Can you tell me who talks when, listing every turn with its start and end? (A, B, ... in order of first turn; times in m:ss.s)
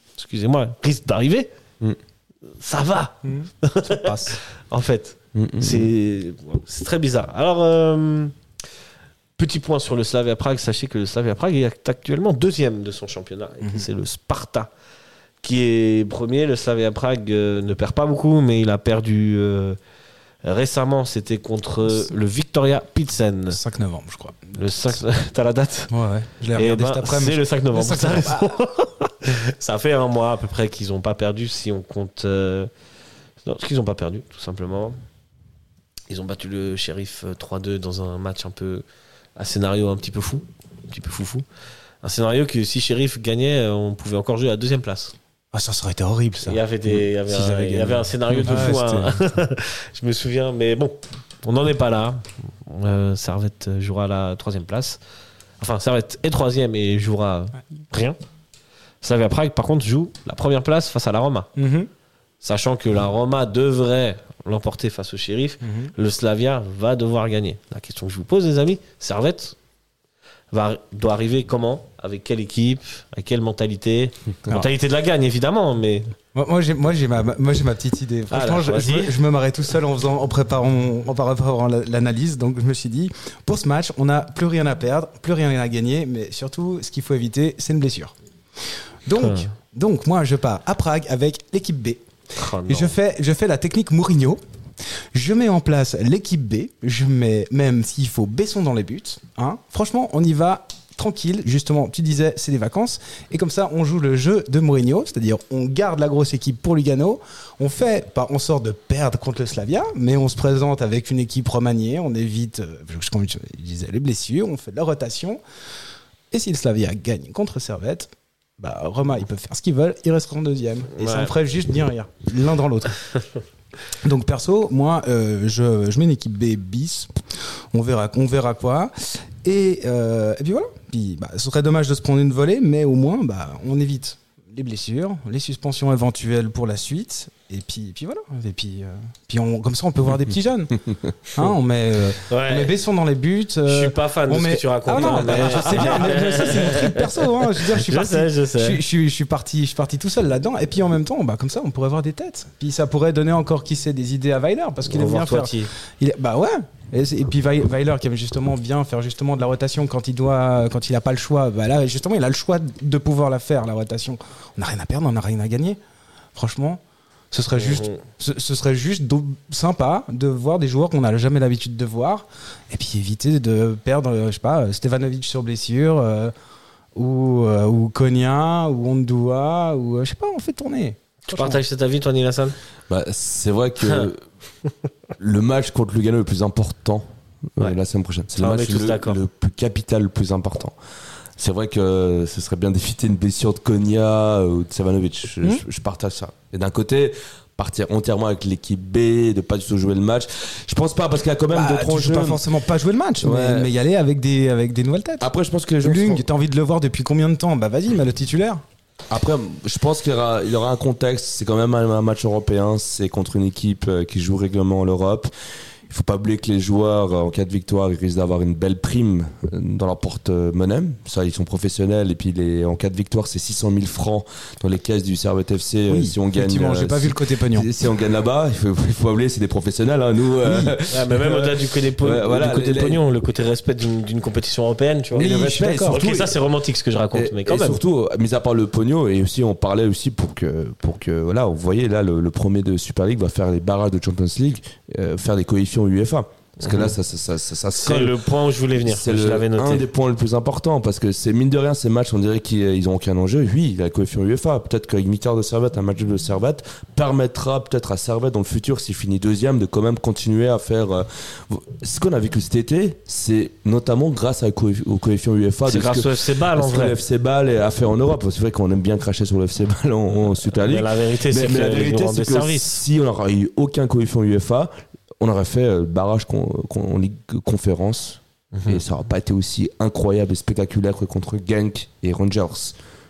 0:00.2-0:01.5 A
0:02.6-0:04.1 A
0:03.2-0:04.4 B
0:04.7-0:08.4 A
0:05.4-0:05.9 C
0:09.4-0:14.7 A
0:13.6-0:13.9 B
0:15.4-0:19.8 A
0:20.4-0:23.6 A
0:23.5-0:24.6 B
0:24.5-0:25.9 A
0:25.9-0:28.6 B
0:26.6-0:32.7 A
0:33.4-0:35.0 A
0:36.1-0:38.8 A
0:39.4-0:41.4 A
0:42.0-0:45.2 A
0:45.5-0:49.2 B
0:46.4-0:55.0 A
0:55.6-0:58.2 A
0:59.0-1:01.5 A
1:01.6-1:01.9 B
1:02.4-1:09.6 A
1:05.6-1:05.9 B
1:10.5-1:16.1 A
1:16.4-1:28.1 B
1:18.3-1:19.1 A
1:29.0-1:32.0 B
1:29.2-1:29.5 A
1:32.4-1:32.9 A
1:32.6-1:34.4 B
1:35.1-1:55.4 B
1:56.3-2:03.0 B
2:01.0-2:01.3 A
2:04.0-2:07.1 B
2:07.7-2:20.8 B
2:21.4-2:45.8 B
2:22.3-2:22.7 A
2:23.7-2:28.8 A
2:25.0-2:26.2 C
2:34.9-2:35.7 A
2:46.4-2:46.8 B
2:47.3-2:56.3 B
2:47.6-2:48.0 A
2:57.0-3:01.6 B
3:01.3-3:02.6 A
3:02.9-3:04.2 C
3:05.2-3:10.8 C
3:08.4-3:09.2 A
3:11.4-3:22.4 C
3:21.5-3:25.3 B
3:23.2-3:23.7 C
3:25.2-3:26.2 C
3:25.8-3:28.6 B
3:29.1-3:35.3 C
3:35.9-3:53.0 C
3:45.9-3:47.9 B
3:50.4-3:50.8 B
3:50.9-3:55.3 A
3:55.2-3:56.0 B
3:55.2-3:56.4 C
3:55.8-3:57.8 A
3:57.1-4:08.2 C
4:06.6-4:07.0 A
4:07.7-4:09.9 A
4:08.8-4:42.8 C
4:25.7-4:27.0 A
4:30.5-4:32.8 A
4:38.5-4:38.8 A